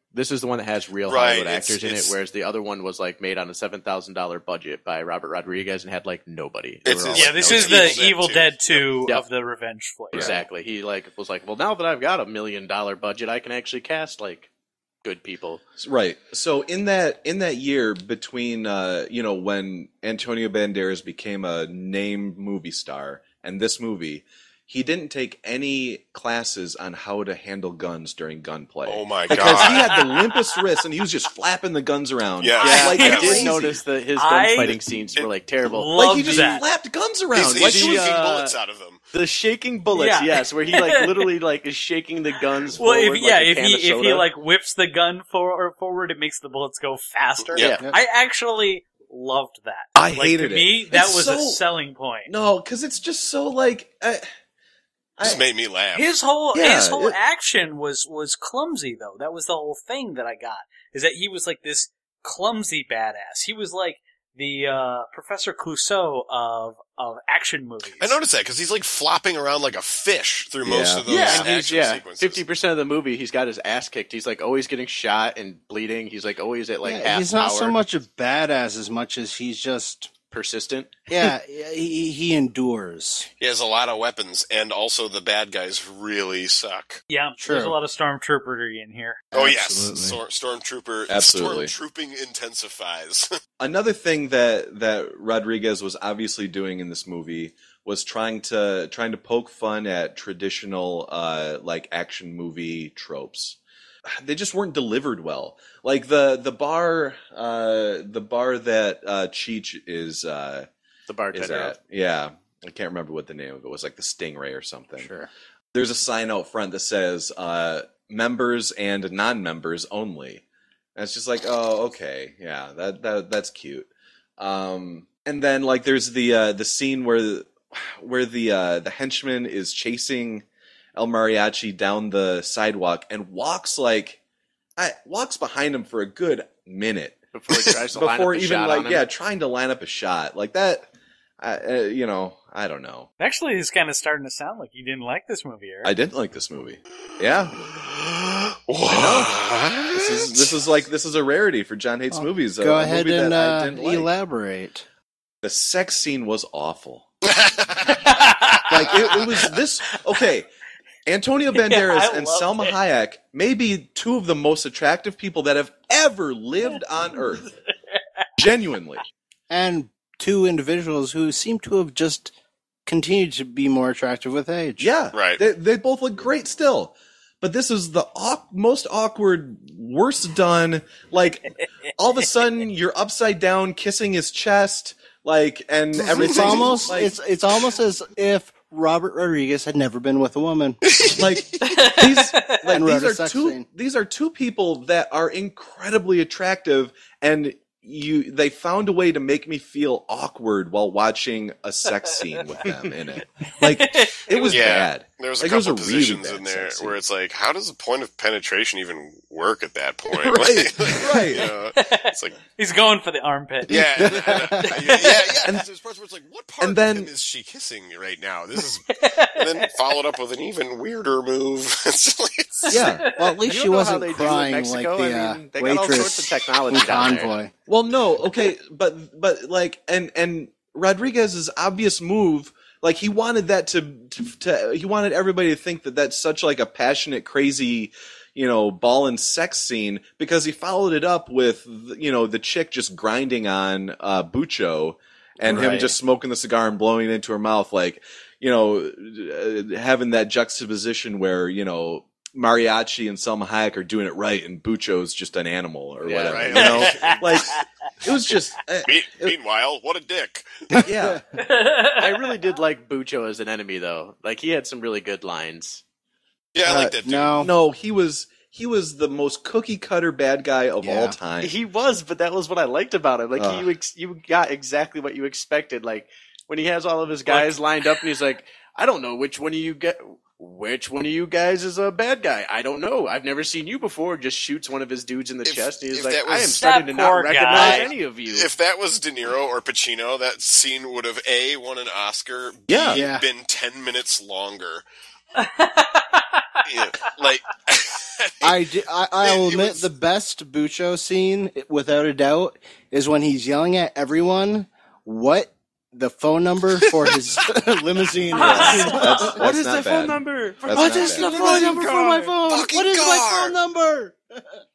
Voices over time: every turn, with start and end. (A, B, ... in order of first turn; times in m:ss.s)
0:00.1-0:08.0 A
0:01.1-0:02.1 B
0:06.8-0:08.8 B
0:07.1-0:10.3 C
0:10.1-0:10.4 D
0:10.1-0:14.5 A
0:15.0-0:15.6 A
0:15.8-0:33.8 D
0:28.9-0:29.9 B
0:29.6-0:30.2 C
0:32.4-0:33.5 B
0:32.6-0:36.5 A
0:32.6-0:33.4 C
0:34.2-0:34.8 C
0:35.7-0:36.6 C
0:36.0-0:38.2 D
0:37.3-0:39.0 B
0:37.4-0:38.5 A
0:39.1-0:44.2 A
0:39.9-0:41.3 C
0:42.8-0:52.3 C
0:47.5-0:47.8 B
0:47.6-0:47.8 A
0:50.0-0:51.6 D
0:52.3-0:54.3 D
0:55.2-0:56.1 B
0:56.0-1:08.2 C
0:56.5-0:57.2 D
1:08.0-1:12.4 B
1:10.6-1:11.4 D
1:11.1-1:11.4 E
1:11.2-1:17.8 A
1:16.8-1:20.1 E
1:20.3-1:20.9 A
1:21.1-1:23.3 E
1:23.4-1:27.0 B
1:27.1-1:29.2 C
1:27.4-1:27.8 E
1:29.3-1:30.2 E
1:29.3-1:33.3 B
1:31.1-1:31.7 D
1:33.6-1:50.7 D
1:51.1-1:51.7 A
1:51.3-1:55.1 D
1:55.0-1:55.3 E
1:55.7-2:00.4 D
2:01.0-2:10.4 D
2:11.0-2:14.2 D
2:14.8-2:17.2 D
2:17.3-2:19.0 A
2:17.9-2:20.9 D
2:21.4-2:23.1 D
2:23.2-2:25.9 C
2:25.8-2:27.6 D
2:27.6-2:30.5 B
2:28.9-2:34.1 D
2:32.1-2:34.8 E
2:35.4-2:37.1 D
2:37.3-2:38.0 B
2:37.9-2:39.0 C
2:38.7-2:40.5 D
2:41.0-2:47.5 D
2:41.6-2:42.7 C
2:48.4-2:49.0 D
2:49.5-2:52.3 E
2:52.8-2:54.9 E
2:54.8-3:07.1 D
2:55.1-2:55.4 B
3:06.0-3:10.8 E
3:06.4-3:06.7 B
3:10.9-3:11.3 B
3:11.1-3:27.0 D
3:11.7-3:12.6 C
3:12.7-3:13.6 E
3:23.6-3:24.6 C
3:24.4-3:32.4 B
3:30.1-3:31.5 D
3:31.8-3:33.8 C
3:33.7-3:42.7 B
3:33.7-3:34.1 D
3:34.0-3:35.3 E
3:36.6-3:37.1 D
3:39.0-3:39.7 C
3:42.7-3:43.0 D
3:42.7-3:47.5 E
3:42.9-3:43.4 C
3:43.5-3:47.3 A
3:47.7-4:19.3 D
4:16.0-4:16.7 A
4:16.2-4:17.5 B
4:16.6-4:17.6 C
4:18.8-4:20.4 B
4:20.7-4:21.2 E
4:20.8-4:21.2 D
4:21.4-4:22.3 C
4:22.0-4:25.8 A
4:26.5-4:27.3 B
4:26.6-4:27.5 E
4:27.4-4:31.5 D
4:30.8-4:31.2 E
4:31.4-4:48.5 A
4:33.4-4:33.7 D
4:45.4-4:46.6 B
4:46.6-4:47.9 C
4:47.5-4:47.9 E
4:48.3-4:54.8 B
4:52.7-4:53.0 D
4:52.9-4:53.2 E
4:55.4-4:56.8 C
4:56.7-4:58.5 B
4:58.4-5:09.4 E
4:59.2-4:59.8 B
5:06.8-5:07.1 B
5:08.3-5:09.3 C
5:08.3-5:11.4 D
5:08.5-5:12.3 A
5:10.7-5:14.6 E
5:11.2-5:11.9 B
5:12.4-5:13.6 B